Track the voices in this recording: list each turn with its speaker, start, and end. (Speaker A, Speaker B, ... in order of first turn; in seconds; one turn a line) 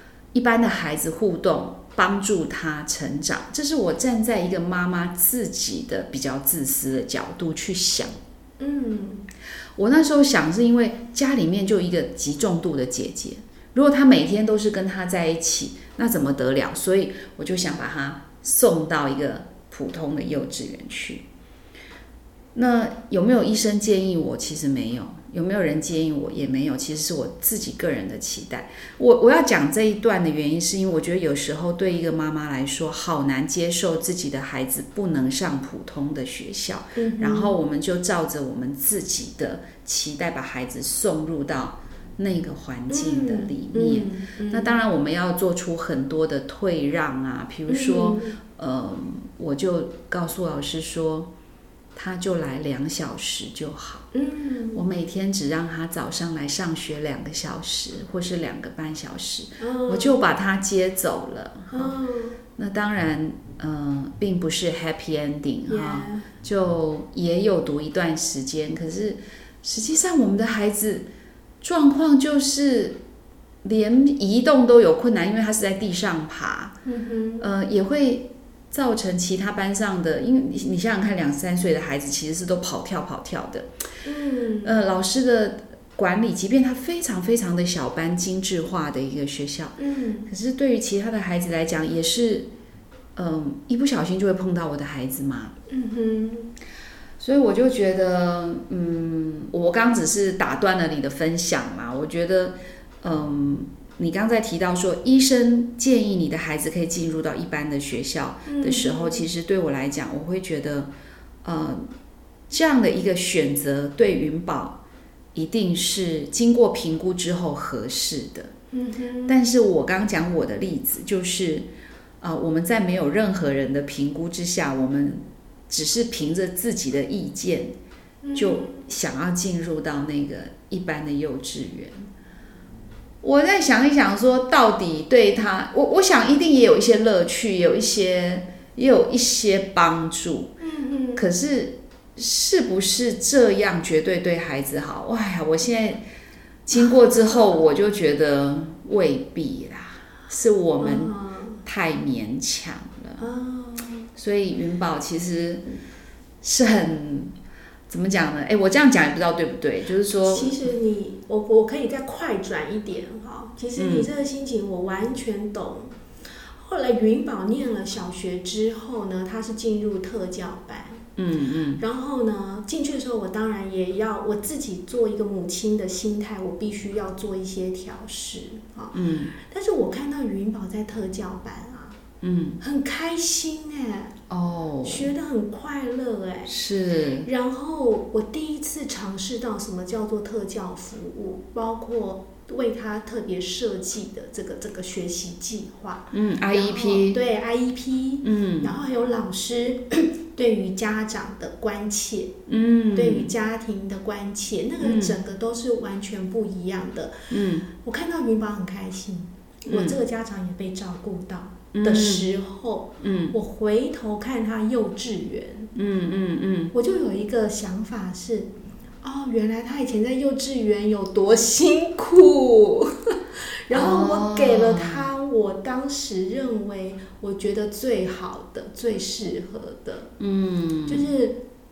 Speaker A: 0.3-8.1
Speaker B: 8.6-9.2
Speaker A: 9.8-21.2
Speaker A: 22.5-51.3
Speaker B: 37.0-37.5
Speaker B: 42.9-44.8
Speaker B: 47.7-48.4
Speaker A: 51.9-54.1
Speaker B: 54.1-54.8
Speaker A: 54.7-61.9
Speaker B: 59.6-60.2
Speaker B: 61.7-62.4
Speaker A: 62.5-71.1
Speaker B: 65.7-66.3
Speaker A: 71.6-73.0
Speaker A: 73.6-76.7
Speaker B: 76.8-77.5
Speaker A: 77.4-83.7
Speaker B: 84.0-84.8
Speaker A: 84.6-92.5
Speaker B: 89.8-90.3
Speaker A: 93.2-95.5
Speaker B: 95.7-96.5
Speaker A: 97.2-110.9
Speaker B: 108.5-109.3
Speaker A: 111.4-111.9
Speaker A: 112.5-114.8
Speaker A: 115.3-118.5
Speaker B: 118.7-119.4
Speaker A: 119.2-121.7
Speaker A: 122.2-127.8
Speaker B: 128.2-128.8
Speaker A: 128.3-132.1
Speaker A: 133.2-140.5
Speaker B: 140.6-141.2
Speaker A: 141.2-146.0
Speaker A: 146.7-151.1
Speaker B: 146.7-147.6
Speaker B: 150.8-151.6
Speaker A: 151.6-153.3
Speaker B: 153.2-154.1
Speaker A: 154.1-155.6
Speaker A: 156.4-157.3
Speaker A: 157.9-160.6
Speaker B: 160.1-165.9
Speaker A: 163.8-164.1
Speaker B: 166.5-171.0
Speaker A: 171.2-171.8
Speaker B: 171.8-182.0
Speaker A: 178.9-179.3
Speaker A: 182.2-182.6
Speaker B: 182.6-184.2
Speaker A: 184.3-185.1
Speaker B: 184.8-186.5
Speaker A: 186.5-187.3
Speaker B: 187.2-202.3
Speaker A: 196.1-197.2
Speaker A: 198.2-198.7
Speaker A: 202.5-203.3
Speaker B: 202.9-215.7
Speaker A: 204.8-205.2
Speaker A: 207.3-207.7
Speaker A: 209.7-210.0
Speaker A: 211.7-212.3
Speaker A: 213.0-213.3
Speaker A: 215.7-216.7
Speaker B: 216.7-230.1
Speaker A: 223.7-225.1
Speaker A: 230.2-231.1
Speaker B: 230.9-231.4